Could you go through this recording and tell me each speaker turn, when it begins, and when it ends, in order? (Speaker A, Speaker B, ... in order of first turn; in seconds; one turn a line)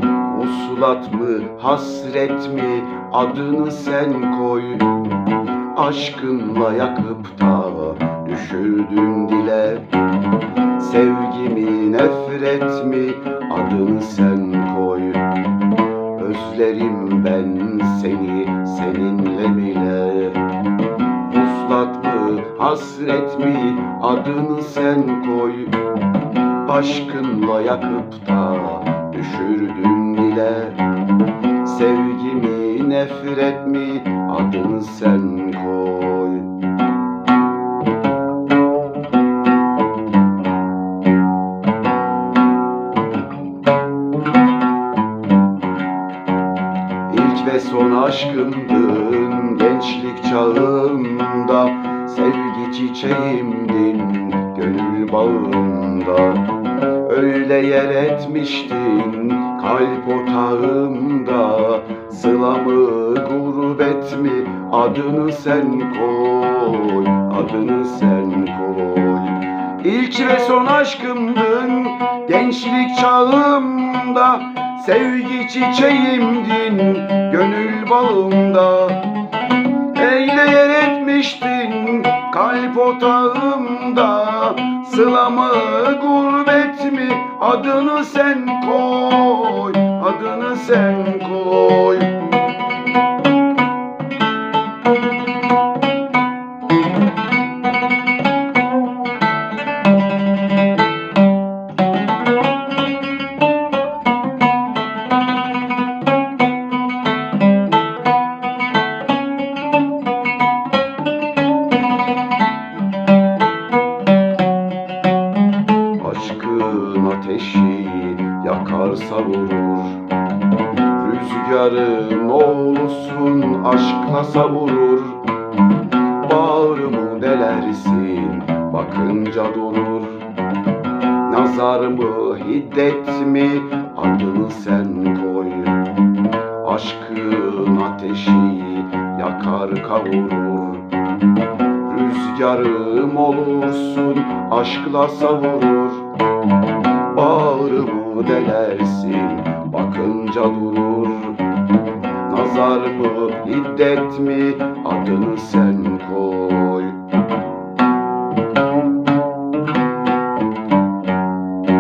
Speaker A: 0.3-5.0
Speaker A: 5.7-9.9
Speaker A: 10.8-15.2
Speaker A: 16.2-20.4
Speaker A: 21.2-25.8
Speaker A: 26.6-30.8
Speaker A: 31.6-36.5
Speaker A: 47.1-56.5
Speaker A: 57.0-79.1
Speaker A: 79.9-92.2
Speaker A: 116.0-120.0
Speaker A: 120.9-125.2
Speaker A: 126.2-130.3
Speaker A: 131.2-135.8
Speaker A: 136.6-140.9
Speaker A: 141.8-146.0
Speaker A: 147.1-151.4
Speaker A: 152.2-157.0